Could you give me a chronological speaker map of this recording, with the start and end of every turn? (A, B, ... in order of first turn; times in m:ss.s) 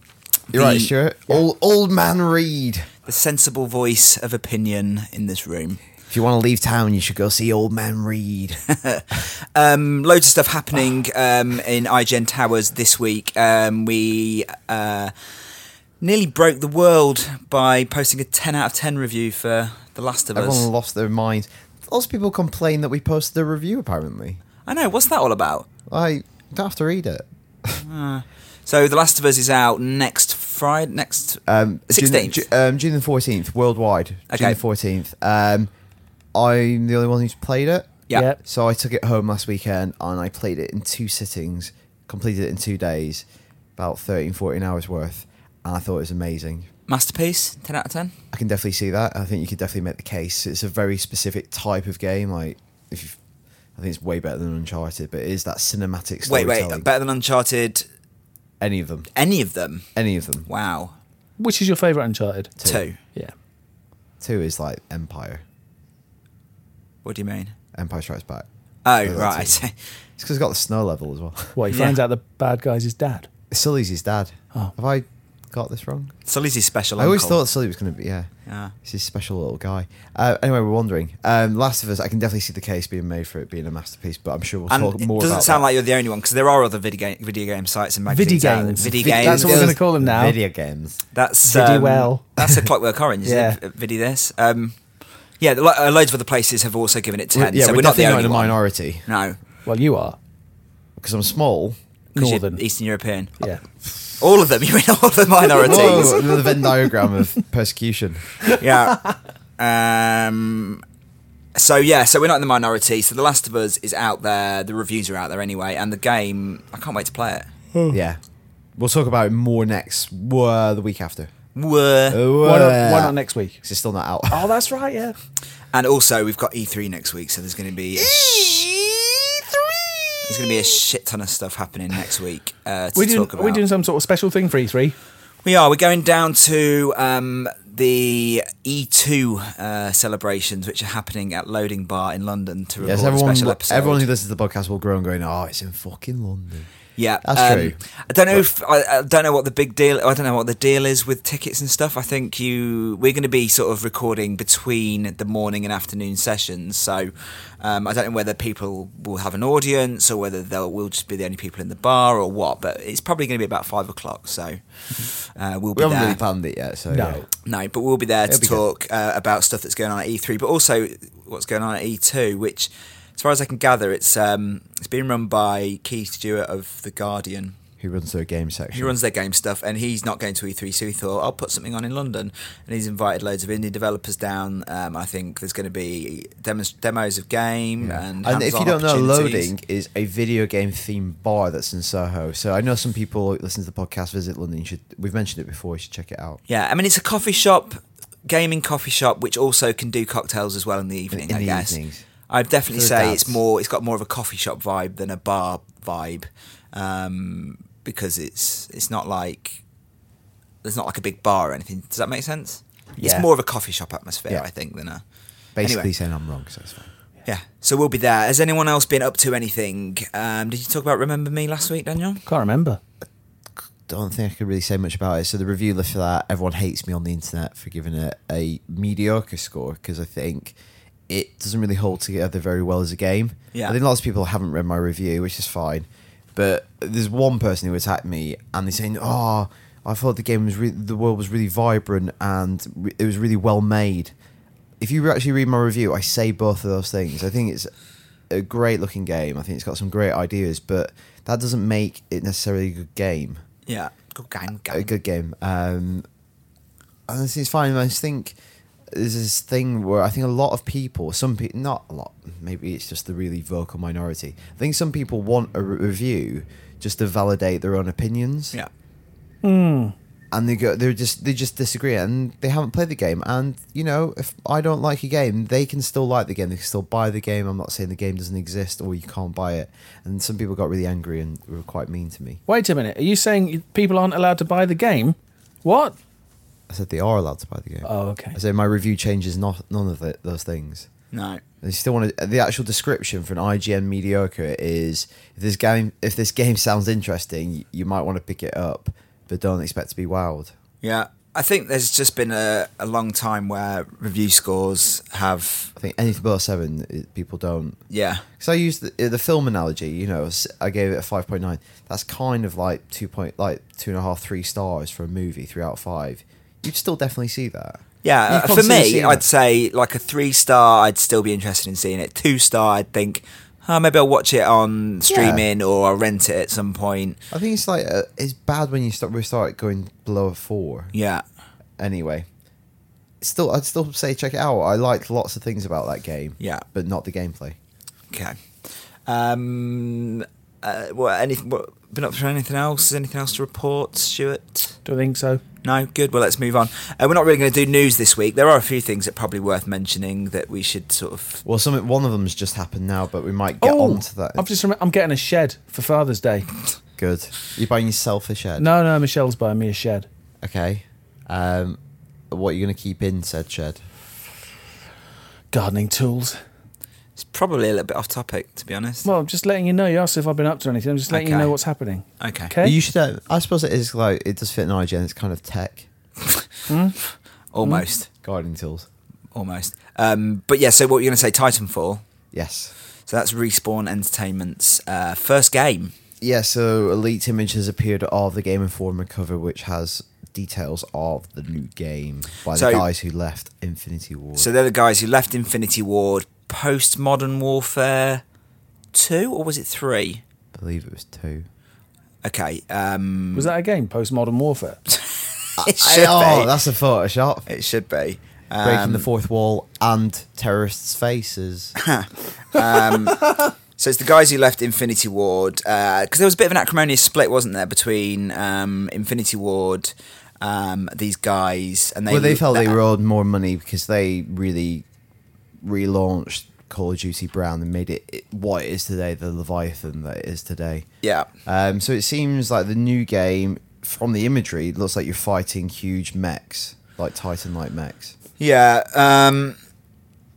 0:00.5-0:00.9 A
0:00.5-0:02.9 B
0:03.1-0:05.8 A
0:06.1-0:08.6 B
0:08.7-0:15.1 A
0:16.0-0:20.7 A
0:20.4-0:24.4 B
0:24.7-0:25.7 A
0:25.9-0:27.8 B
0:27.8-0:32.4 A
0:31.5-0:35.7 B
0:34.3-0:34.6 A
0:36.4-0:43.2 B
0:38.1-0:38.4 C
0:43.8-0:46.7 B
0:46.9-0:48.1 A
0:48.3-0:53.2 B
0:53.8-0:56.9 B
0:56.3-0:57.9 A
0:58.6-0:59.1 B
0:59.2-0:59.9 A
1:00.0-1:00.5 B
1:00.5-1:01.0 A
1:01.4-1:02.6 C
1:02.6-1:02.8 B
1:02.6-1:03.0 A
1:04.2-1:05.4 B
1:07.0-1:07.6 A
1:07.7-1:08.5 B
1:08.8-1:09.7 A
1:09.0-1:09.6 B
1:10.2-1:11.6 B
1:11.6-1:13.3 C
1:11.7-1:12.0 A
1:13.5-1:16.2 B
1:16.3-1:17.4 A
1:17.0-1:18.3 B
1:18.5-1:18.7 A
1:18.8-1:25.7 B
1:24.7-1:29.8 A
1:28.1-1:30.4 C
1:28.8-1:31.0 B
1:31.1-1:34.8 A
1:31.4-1:32.3 C
1:32.4-1:32.7 B
1:33.2-1:33.6 C
1:35.4-1:39.4 A
1:37.3-1:39.1 B
1:39.7-1:40.2 C
1:41.0-1:41.8 B
1:42.2-1:43.4 A
1:42.2-1:42.6 C
1:44.2-1:46.3 A
1:45.6-1:48.4 B
1:45.7-1:46.6 C
1:48.5-1:50.8 A
1:51.6-1:57.5 A
1:57.9-1:58.2 B
1:58.8-2:01.3 B
2:01.6-2:02.2 A
2:02.1-2:04.5 B
2:02.4-2:03.6 C
2:04.3-2:05.2 C
2:05.7-2:08.7 A
2:08.0-2:10.5 B
2:10.2-2:13.6 A
2:13.0-2:15.0 C
2:15.4-2:24.1 A
2:22.8-2:26.7 B
2:27.0-2:46.2 A
2:27.2-2:27.8 B
2:45.8-2:47.3 B
2:46.9-2:47.3 C
2:47.4-2:57.6 A
2:48.3-2:48.6 B
2:57.8-2:59.0 B
2:58.7-3:09.5 A
3:07.8-3:16.4 B
3:16.5-3:21.8 A
3:21.1-3:22.0 B
3:22.3-3:29.6 A
3:22.7-3:23.4 B
3:30.6-3:35.0 A
3:33.0-3:33.3 B
3:35.6-3:36.9 B
3:35.6-3:35.9 A
3:37.2-3:42.2 A
3:42.3-3:42.8 C
3:43.9-3:50.6 B
3:51.1-4:04.1 B
4:04.8-4:07.7 B
4:08.3-4:13.4 B
4:13.7-4:14.9 A
4:14.7-4:16.0 B
4:17.1-4:18.4 B
4:18.9-4:28.6 B
4:29.4-4:30.0 C
4:30.3-4:42.4 B
4:42.5-4:46.0 C
4:46.7-4:50.9 B
4:47.8-4:48.4 C
4:51.1-4:51.4 A
4:51.6-5:00.5 B
5:00.8-5:05.7 A
5:05.8-5:07.8 B
5:07.9-5:08.3 A
5:08.4-5:19.2 B
5:18.0-5:27.2 A
5:25.1-5:25.5 B
5:27.3-5:30.9 B
5:30.9-5:31.2 A
5:31.8-5:32.3 B
5:33.2-5:37.6 B
5:38.1-5:38.4 A
5:39.1-5:44.8 A
5:44.8-5:45.4 C
5:45.6-5:51.4 A
5:51.4-5:54.5 B
5:53.6-5:56.5 C
5:57.0-5:58.7 B
5:58.6-6:00.1 C
6:00.4-6:01.8 B
6:02.3-6:03.8 B
6:05.5-6:06.4 C
6:07.2-6:09.1 A
6:09.0-6:12.8 C
6:11.1-6:11.6 A
6:12.2-6:12.5 A
6:12.6-6:15.9 B
6:16.7-6:17.0 C
6:17.5-6:18.1 A
6:18.2-6:18.9 B
6:19.3-6:22.0 A
6:22.3-6:22.7 B
6:23.1-6:25.9 A
6:26.2-6:34.5 B
6:32.5-6:32.8 A
6:34.4-6:38.2 A
6:38.9-6:40.2 A
6:40.5-6:41.4 B
6:42.2-6:43.5 A
6:43.4-6:44.8 C
6:45.6-6:46.6 A
6:45.6-6:47.5 B
6:47.5-6:49.1 A
6:48.6-6:51.8 B
6:51.8-7:02.8 A
7:02.1-7:04.9 B
7:05.6-7:10.9 B
7:11.0-7:11.3 A
7:11.5-7:18.2 B
7:18.4-7:19.6 A